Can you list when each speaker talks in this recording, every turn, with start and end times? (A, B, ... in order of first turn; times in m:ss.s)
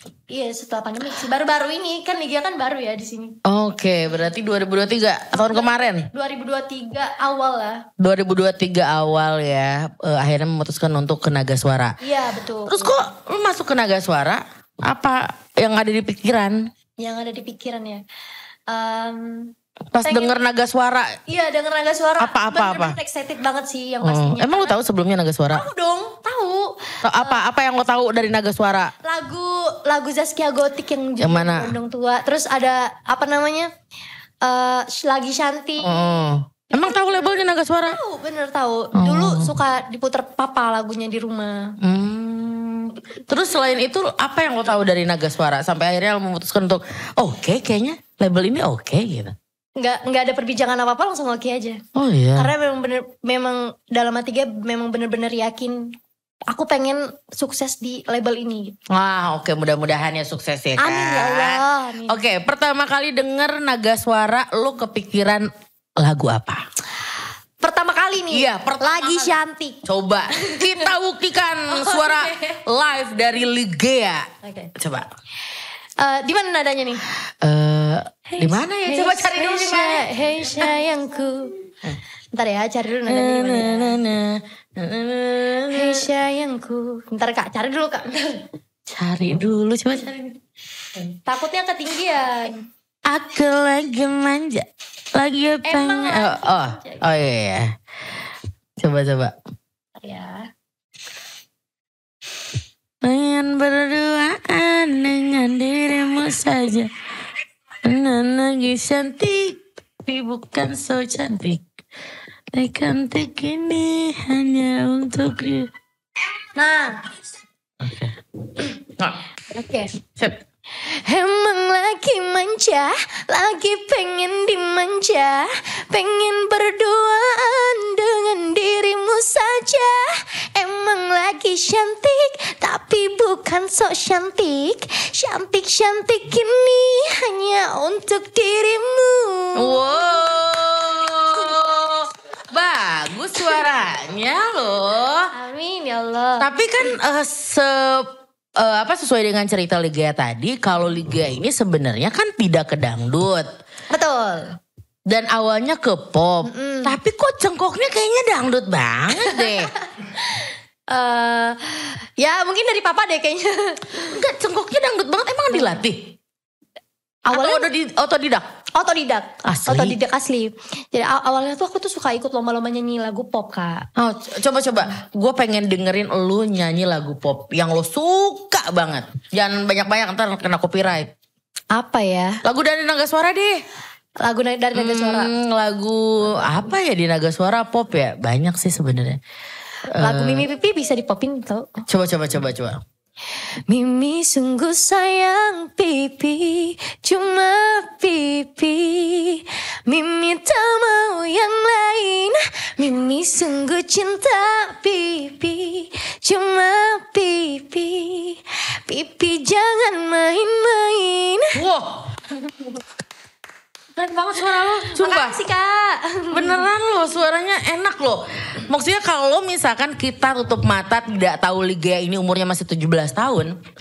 0:00.3-0:03.4 A
0:03.4-0:06.1 B
0:05.3-0:07.9 A
0:08.0-0:12.0 B
0:12.0-0:13.0 A
0:12.6-0:16.7 B
0:17.0-0:18.0 A
0:18.7-0:20.4 A
0:19.9-0:21.2 B
0:21.3-0:24.8 A
0:22.2-0:23.0 B
0:24.0-0:25.6 B
0:25.5-0:27.4 A
0:27.0-0:28.9 B
0:29.0-0:33.7 A
0:31.2-0:31.8 B
0:34.4-0:41.8 A
0:35.8-0:38.0 B
0:39.0-0:39.6 B
0:41.8-0:49.4 B
0:49.8-0:51.8 A
0:52.0-0:52.5 B
0:52.4-0:55.9 A
0:56.5-0:58.8 A
0:58.9-1:06.6 B
1:00.8-1:02.2 A
1:07.6-1:10.9 A
1:08.3-1:15.1 B
1:11.7-1:12.6 A
1:14.4-1:14.7 A
1:16.0-1:17.0 A
1:17.2-1:20.7 B
1:18.3-1:21.5 A
1:22.3-1:24.0 A
1:23.1-1:26.1 B
1:25.7-1:28.5 A
1:28.9-1:30.4 B
1:31.3-1:32.6 A
1:33.1-1:37.8 B
1:35.6-1:37.0 A
1:38.8-1:39.4 B
1:40.0-1:40.5 A
1:43.0-1:46.9 B
1:47.8-1:51.7 B
1:52.5-1:55.7 B
1:56.6-1:57.1 A
1:57.8-1:59.2 B
1:59.5-1:59.9 A
2:00.0-2:00.4 B
2:00.8-2:20.3 A
2:19.6-2:25.3 B
2:25.3-2:26.5 A
2:26.4-2:33.5 B
2:33.9-2:34.6 A
2:35.1-2:39.7 B
2:36.4-2:37.0 A
2:39.2-2:44.2 A
2:44.0-2:46.2 B
2:45.5-2:45.8 A
2:47.3-2:48.5 B
2:47.3-2:47.7 A
2:48.8-2:53.9 A
2:49.4-2:50.0 B
2:54.0-3:01.1 B
3:01.7-3:02.4 A
3:02.4-3:03.6 B
3:04.2-3:05.3 A
3:04.7-3:09.2 B
3:09.9-3:10.5 B
3:10.0-3:11.9 A
3:11.9-3:12.8 B
3:13.7-3:31.6 A
3:31.5-3:32.1 B
3:34.0-3:35.4 B
3:34.4-3:36.7 A
3:36.3-3:43.6 B